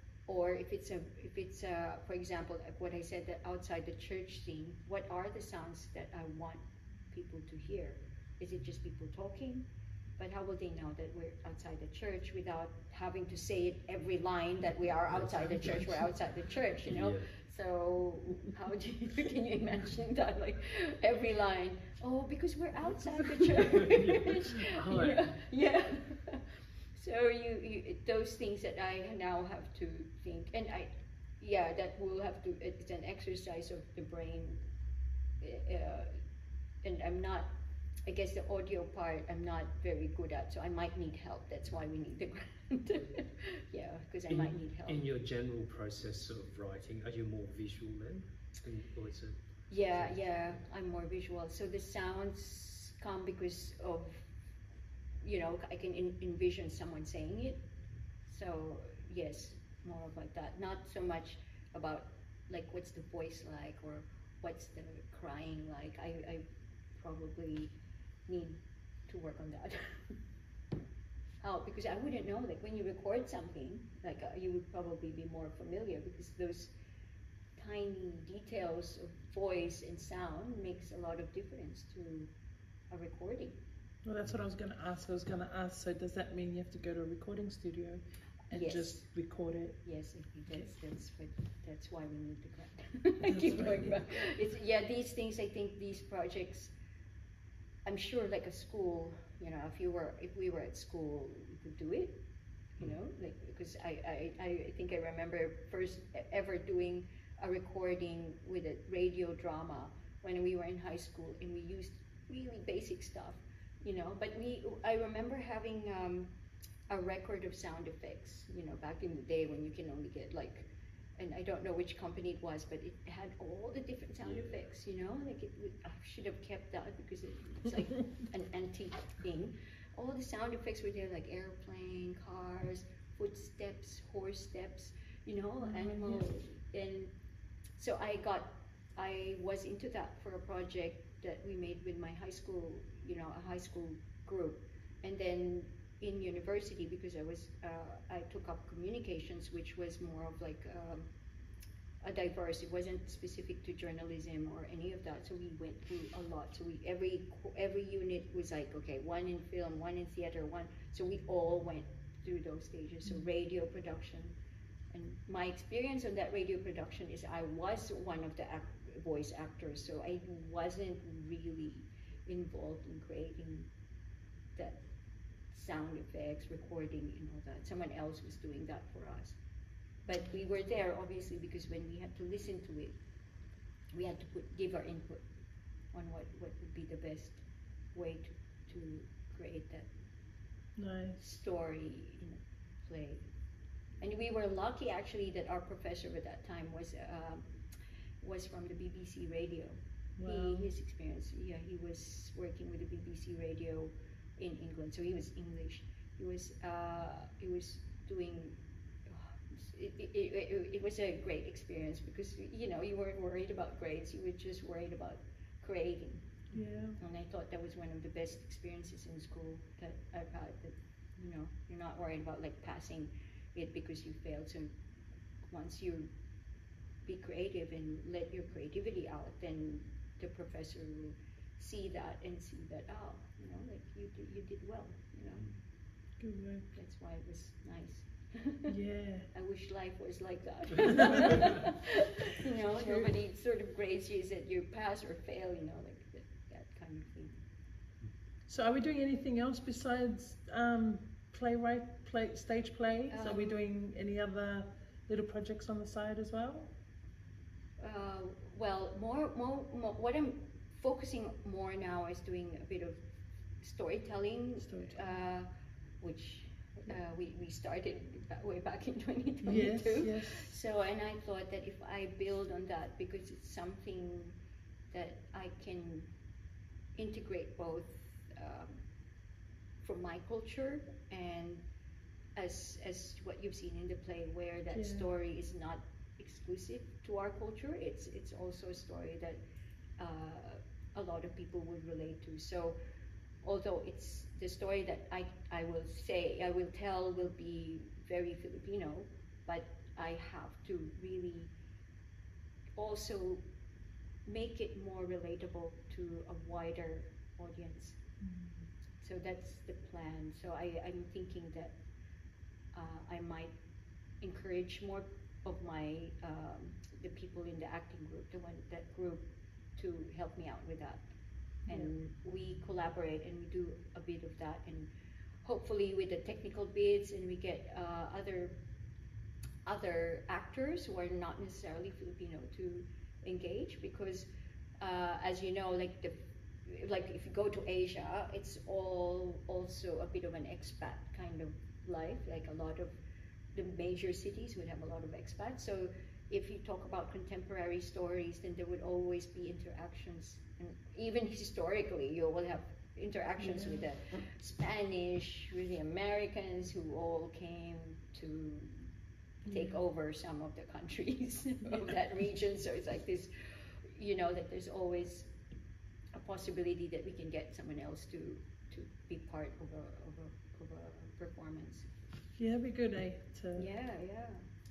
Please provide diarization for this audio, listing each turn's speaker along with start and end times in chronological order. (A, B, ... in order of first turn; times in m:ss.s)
0:00.3-0:34.6 A
0:15.2-0:15.9 B
0:16.9-0:17.3 B
0:23.4-0:25.3 B
0:35.4-0:36.1 A
0:36.8-0:37.5 A
0:38.0-0:45.0 A
0:44.3-0:50.2 B
0:49.7-0:54.2 A
0:55.2-0:57.6 A
0:58.2-1:07.7 A
1:08.3-1:10.2 A
1:11.4-1:16.7 A
1:17.6-1:22.3 A
1:22.9-1:23.6 A
1:24.0-1:29.8 C
1:28.5-1:29.0 A
1:29.8-1:36.7 A
1:33.3-1:33.9 C
1:37.8-1:42.2 A
1:42.8-1:56.3 A
1:56.9-2:17.1 A
2:04.2-2:04.6 B
2:15.6-2:16.2 C
2:17.8-2:31.1 A
2:32.0-2:44.4 A
2:44.9-2:53.7 A
2:54.6-2:54.8 A
2:55.5-2:59.4 A
3:00.0-3:03.0 A
3:03.9-3:05.2 A
3:05.9-3:07.4 A
3:07.9-3:09.9 A
3:10.8-3:11.3 C
3:11.2-3:13.3 A
3:14.0-3:17.4 A
3:18.2-3:44.7 A
3:20.2-3:20.7 C
3:36.5-3:37.0 C
3:45.5-3:46.1 A
3:47.0-3:55.4 A
3:56.2-3:56.7 C
3:56.7-3:58.7 A
3:58.7-3:59.3 C
3:59.3-4:07.4 A
4:00.9-4:01.4 C
4:01.2-4:01.6 B
4:02.8-4:03.1 C
4:08.5-4:16.7 C
4:13.1-4:13.6 A
4:17.8-4:23.0 A
4:23.6-4:25.5 A
4:24.6-4:25.1 C
4:26.0-4:34.4 A
4:29.4-4:30.5 C
4:34.9-4:36.1 A
4:37.0-4:38.8 A
4:39.8-4:41.6 A
4:42.3-4:49.4 A
4:44.7-4:45.1 C
4:50.0-4:52.8 A
4:53.4-5:01.5 A
5:02.8-5:03.4 A
5:04.2-5:08.0 A
5:08.2-5:08.6 C
5:09.0-5:11.8 A
5:12.7-5:13.5 A
5:14.2-5:21.1 A
5:21.7-5:24.9 A
5:25.4-5:28.6 A
5:29.6-5:34.3 A
5:34.8-5:43.0 A
5:43.5-5:58.9 A
5:53.4-5:53.8 C
5:59.4-5:59.8 C
5:59.5-6:03.3 A
6:03.8-6:05.3 A
6:06.1-6:11.9 A
6:12.4-6:13.7 C
6:13.6-6:14.4 A